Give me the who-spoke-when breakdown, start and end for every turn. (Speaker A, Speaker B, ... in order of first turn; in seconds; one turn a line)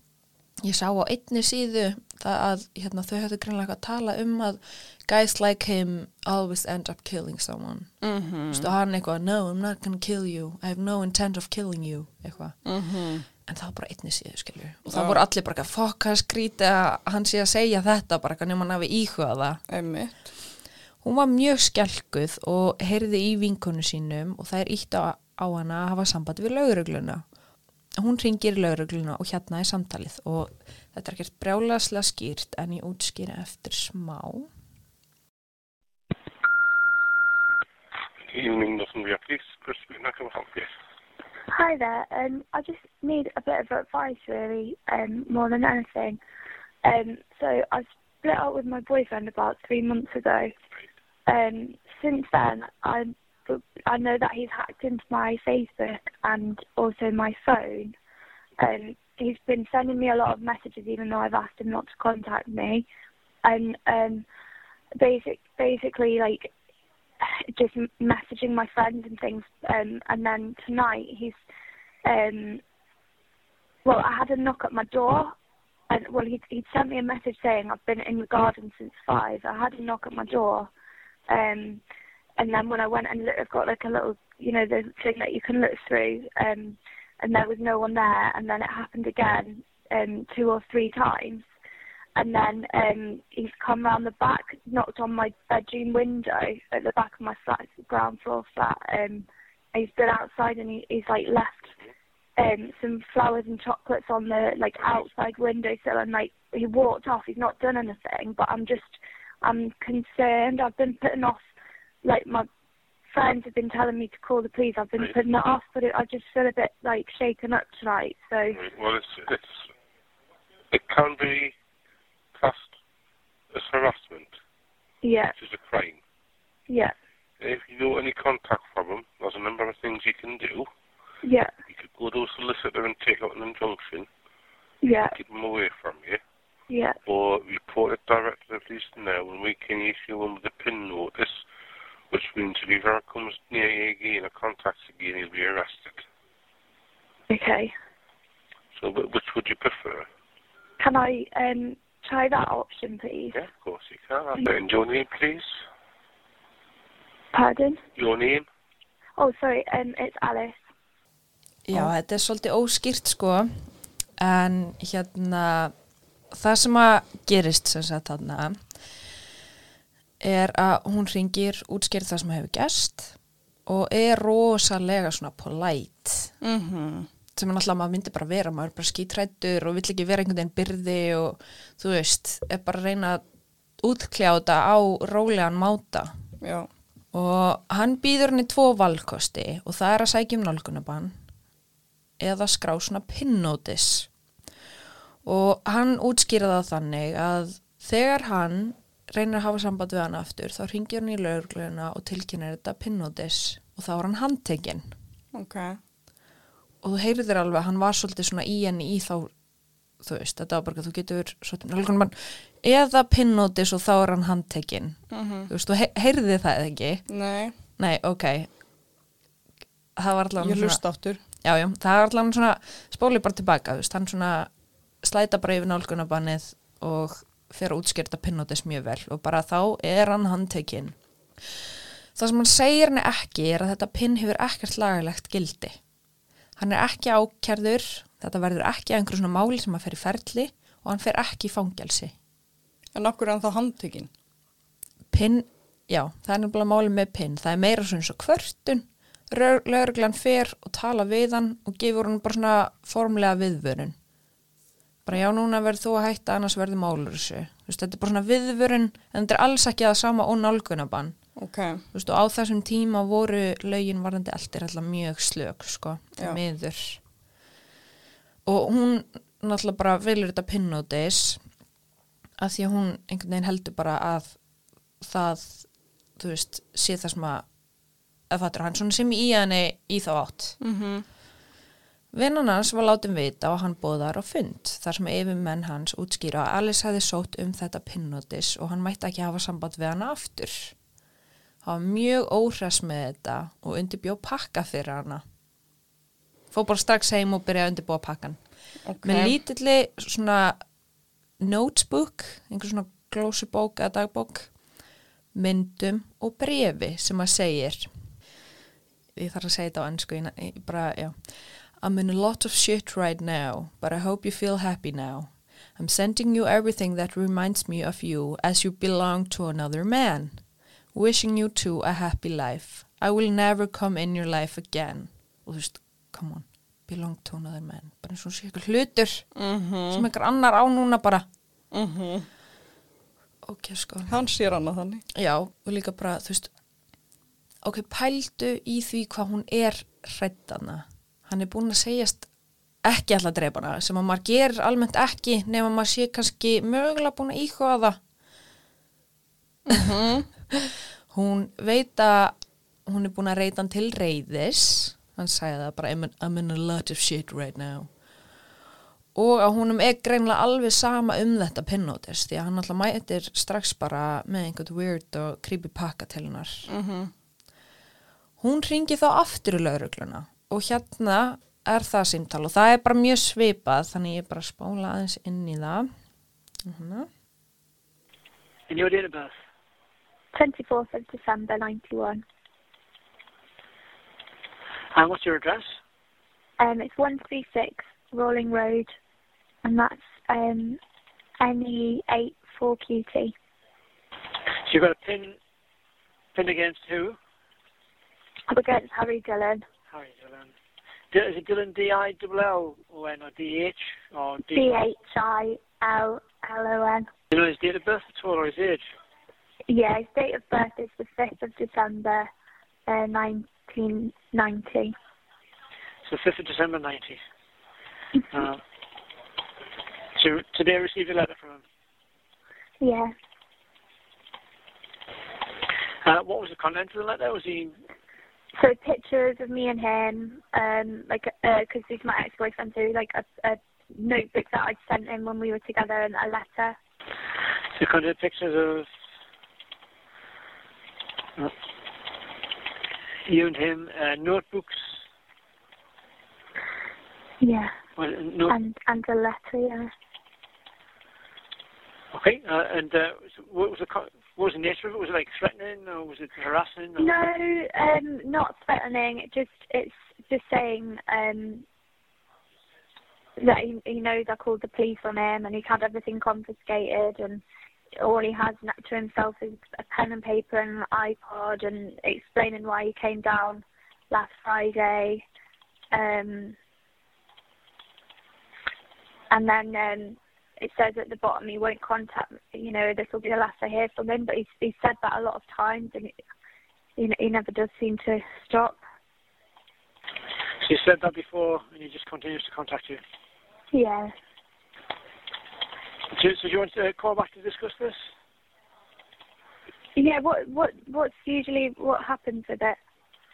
Speaker A: 0.6-7.9
Speaker B: 8.0-8.7
Speaker A: 8.5-12.6
Speaker B: 12.6-13.2
Speaker A: 13.4-19.6
Speaker B: 14.9-15.2
Speaker B: 19.7-20.3
Speaker A: 21.0-27.2
Speaker A: 28.0-34.5
Speaker C: 38.3-40.7
Speaker D: 41.5-46.2
Speaker D: 46.8-50.5
Speaker D: 51.3-57.9
Speaker D: 58.6-62.9
Speaker D: 63.4-64.2
Speaker D: 65.0-66.5
Speaker D: 67.2-71.3
Speaker D: 72.0-72.6
Speaker D: 73.8-75.3
Speaker D: 75.9-80.7
Speaker D: 81.3-81.8
Speaker D: 82.4-91.4
Speaker D: 92.2-101.7
Speaker D: 102.4-111.4
Speaker D: 112.0-112.5
Speaker D: 113.1-118.6
Speaker C: 118.5-119.5
Speaker C: 120.7-121.5
Speaker C: 122.3-122.7
Speaker C: 123.5-124.3
Speaker D: 125.0-125.3
Speaker C: 125.3-126.0
Speaker D: 126.7-126.9
Speaker C: 127.4-130.7
Speaker D: 131.2-131.5
Speaker C: 131.7-134.1
Speaker D: 134.8-135.1
Speaker C: 135.1-136.2
Speaker D: 136.7-137.0
Speaker C: 137.1-141.4
Speaker C: 142.1-146.1
Speaker D: 147.3-147.7
Speaker C: 148.7-150.1
Speaker D: 150.8-153.4
Speaker C: 153.3-155.5
Speaker D: 157.3-157.8
Speaker C: 157.9-158.4
Speaker D: 159.2-160.6
Speaker A: 161.7-163.5
Speaker A: 164.2-165.7
Speaker A: 166.3-168.6
Speaker A: 170.2-173.1
Speaker A: 173.7-176.3
Speaker B: 176.4-177.1
Speaker A: 177.3-183.2
Speaker A: 183.8-186.1
Speaker B: 186.4-186.7
Speaker A: 187.1-191.1
Speaker A: 192.2-194.1
Speaker A: 195.2-204.9
Speaker B: 205.3-205.8
Speaker A: 206.8-209.3
Speaker A: 210.0-217.0
Speaker B: 215.1-215.5
Speaker B: 217.1-217.5
Speaker A: 217.8-218.5
Speaker A: 220.0-220.8
Speaker B: 220.4-221.2
Speaker A: 221.4-224.5
Speaker A: 225.0-230.9
Speaker A: 232.2-235.8
Speaker A: 236.6-242.1
Speaker B: 242.9-244.1
Speaker A: 245.1-253.9
Speaker A: 255.1-261.1
Speaker B: 261.4-261.8
Speaker A: 261.9-267.0
Speaker A: 268.4-271.4
Speaker A: 272.4-274.4
Speaker A: 275.0-275.7
Speaker A: 276.2-277.4
Speaker A: 278.3-280.6
Speaker B: 280.6-281.0
Speaker A: 282.1-290.7
Speaker A: 291.6-295.2
Speaker A: 296.5-298.4
Speaker B: 298.9-299.4
Speaker A: 299.0-300.6
Speaker A: 301.4-304.5
Speaker A: 305.3-307.9
Speaker A: 309.1-311.1
Speaker A: 311.8-320.4
Speaker A: 320.9-329.2
Speaker B: 329.3-330.1
Speaker A: 329.9-331.2
Speaker B: 331.7-332.3
Speaker A: 333.4-334.2
Speaker B: 334.1-335.0
Speaker A: 335.1-336.5
Speaker A: 337.6-342.3
Speaker A: 342.8-348.0
Speaker B: 349.6-350.3
Speaker A: 350.5-352.3
Speaker A: 352.9-357.9
Speaker A: 359.1-366.7
Speaker B: 366.7-367.1
Speaker A: 368.4-375.9
Speaker A: 376.6-377.1
Speaker E: 378.7-379.3
Speaker D: 380.3-382.2
Speaker E: 384.9-385.7
Speaker D: 386.6-388.9
Speaker D: 389.6-390.8
Speaker D: 391.4-393.3
Speaker E: 394.6-395.4
Speaker E: 396.3-397.1
Speaker D: 398.5-399.6
Speaker E: 399.9-400.5
Speaker E: 401.1-404.7
Speaker D: 404.5-407.1
Speaker E: 407.3-408.8
Speaker D: 409.7-412.3
Speaker D: 412.9-414.9
Speaker E: 416.0-417.2
Speaker E: 418.3-418.6
Speaker E: 420.1-421.6
Speaker D: 422.8-423.1
Speaker E: 426.0-427.7
Speaker D: 428.6-436.8
Speaker E: 437.7-438.9
Speaker E: 443.2-445.0
Speaker D: 447.4-447.7
Speaker E: 448.0-448.6
Speaker D: 448.5-449.9
Speaker E: 452.1-457.1
Speaker D: 457.0-461.6
Speaker D: 463.4-467.4
Speaker D: 468.0-475.2
Speaker D: 475.9-476.6
Speaker D: 479.3-486.1
Speaker D: 487.0-488.8
Speaker E: 490.6-493.0
Speaker D: 493.7-494.1
Speaker E: 496.1-498.0
Speaker D: 499.9-502.8